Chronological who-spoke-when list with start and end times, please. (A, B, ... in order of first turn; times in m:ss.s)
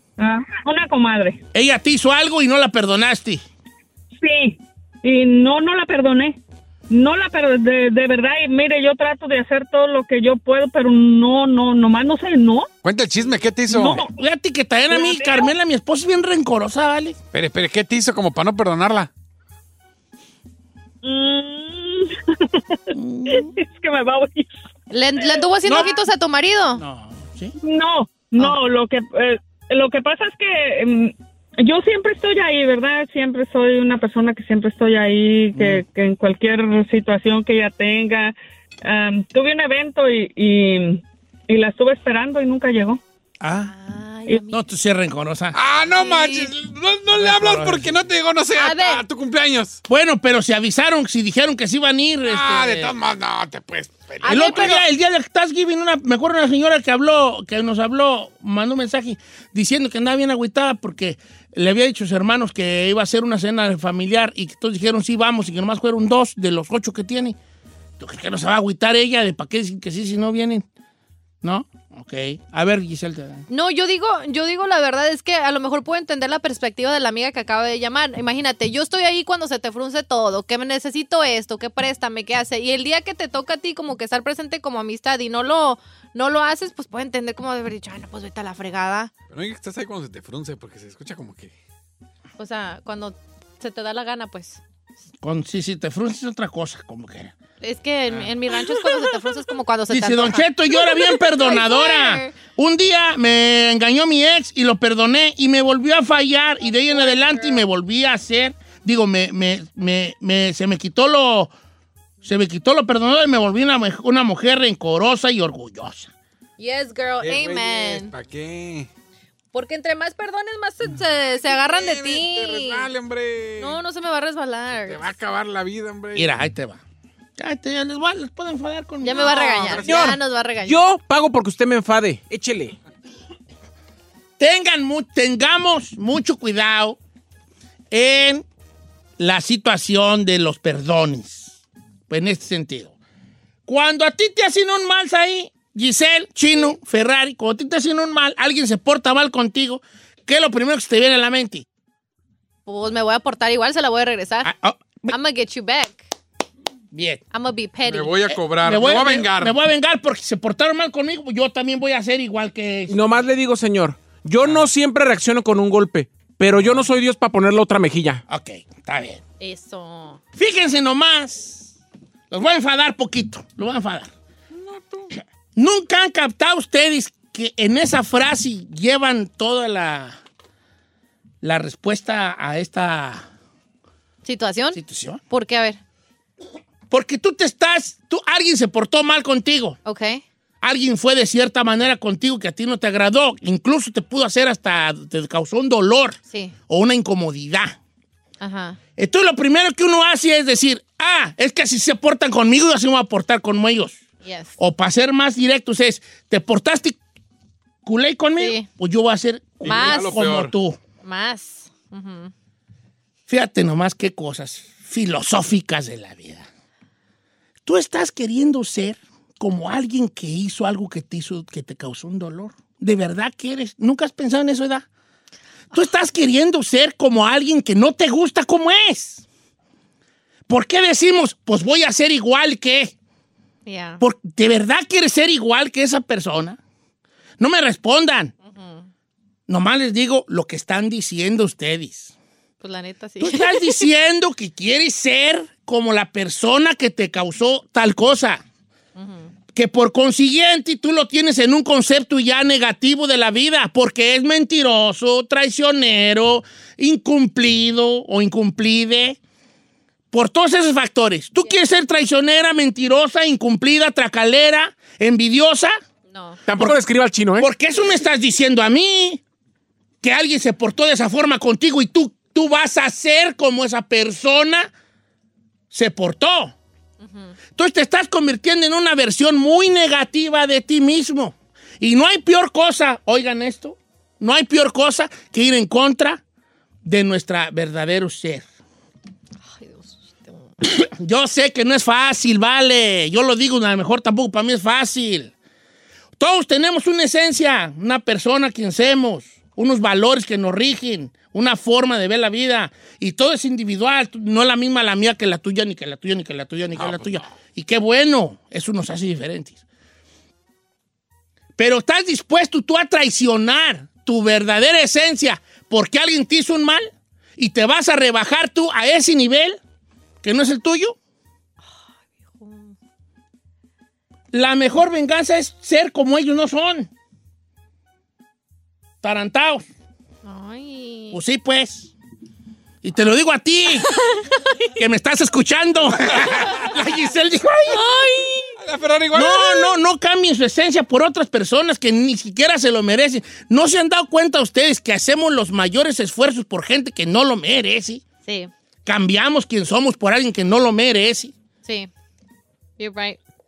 0:00.2-0:01.4 A
0:01.5-0:03.4 B
0:04.2-0:06.4 A
0:06.9-0:12.7 A
0:12.8-0:14.1 C
0:13.7-0:14.1 A
0:14.1-0:17.2 B
0:14.9-0:15.5 A
0:17.3-0:19.1 C
0:21.0-0:24.5 A
0:22.9-0:23.5 B
0:24.9-0:26.8 D
0:25.4-0:25.8 A
0:25.6-0:25.9 B
0:26.8-0:27.6 B
0:27.6-0:43.0 A
0:35.5-0:35.8 B
0:43.4-0:43.7 B
0:43.7-0:44.6 D
0:44.5-0:45.6 B
0:45.5-0:49.8 C
0:46.0-0:46.5 D
0:47.1-0:48.0 B
0:48.5-0:49.0 D
0:49.9-0:52.9 B
0:52.2-0:54.8 C
0:54.2-0:54.8 D
0:54.2-1:07.4 B
1:08.0-1:10.6 B
1:11.4-1:13.4 B
1:13.5-1:29.1 D
1:29.3-1:31.5 C
1:32.4-1:34.6 D
1:35.2-1:37.3 B
1:37.6-1:42.3 D
1:39.9-1:51.5 B
1:46.6-1:47.6 D
1:52.2-1:56.1 B
1:56.6-1:58.1 D
1:57.2-1:58.9 C
1:59.5-2:02.8 D
2:01.4-2:03.8 C
2:03.6-2:05.0 D
2:04.8-2:06.3 C
2:06.1-2:06.8 B
2:07.4-2:09.7 B
2:09.0-2:10.8 D
2:09.1-2:10.0 C
2:09.8-2:12.8 E
2:14.4-2:17.0 B
2:17.9-2:18.4 B
2:19.2-2:21.6 B
2:22.1-2:22.9 B
2:23.7-2:31.6 B
2:32.6-2:34.5 D
2:34.4-2:35.1 B
2:35.1-2:36.0 D
2:36.9-2:37.2 B
2:37.3-2:38.2 D
2:37.8-2:39.5 C
2:38.3-2:43.0 B
2:42.9-2:48.2 E
2:44.4-2:44.7 B
2:46.6-2:46.9 B
2:48.3-2:49.2 B
2:49.4-2:50.2 D
2:50.4-2:51.7 B
2:52.3-2:54.1 B
2:54.5-2:55.1 C
2:55.6-3:00.2 B
3:01.4-3:03.2 B
3:04.2-3:05.8 D
3:04.7-3:05.2 B
3:06.9-3:09.8 B
3:09.8-3:10.2 D
3:10.6-3:17.8 B
3:16.3-3:16.5 D
3:18.4-3:18.8 D
3:19.0-3:24.0 B
3:24.2-3:24.6 D
3:24.6-3:27.0 B
3:27.8-3:30.8 B
3:28.4-3:28.7 D
3:29.6-3:30.1 D
3:29.6-3:30.5 C
3:31.0-3:32.3 D
3:33.3-3:36.5 B
3:37.6-3:44.8 B
3:45.7-3:49.2 B
3:50.5-3:52.9 B
3:53.6-3:54.0 D
3:54.0-3:56.6 B
3:57.4-3:58.3 B
3:58.4-3:58.9 D
3:59.5-4:02.1 B
4:02.6-4:03.9 D
4:03.2-4:08.4 B
4:09.0-4:09.3 D
4:09.5-4:19.2 B
4:20.1-4:25.7 B
4:26.1-4:26.4 D
4:26.4-4:27.5 E
4:27.4-4:29.2 B
4:30.0-4:34.7 B
4:35.7-4:36.5 B
4:37.0-4:37.3 D
4:37.5-4:46.2 B
4:46.8-4:48.4 B
4:49.6-4:50.4 D
4:50.6-4:55.3 B
4:56.2-5:09.6 B
5:06.8-5:07.3 C
5:11.6-5:19.6 B
5:20.2-5:21.0 B
5:22.1-5:22.7 D
5:24.3-5:26.9 B
5:29.0-5:29.6 B
5:30.2-5:31.2 D
5:31.1-5:31.9 B
5:32.8-5:33.9 B
5:33.9-5:34.5 D
5:34.8-5:37.8 B
5:37.7-5:38.5 D
5:38.6-5:39.7 C
5:39.1-5:48.0 B
5:48.2-5:48.5 D
5:48.8-5:51.3 B
5:51.6-5:51.9 D
5:52.8-5:53.2 D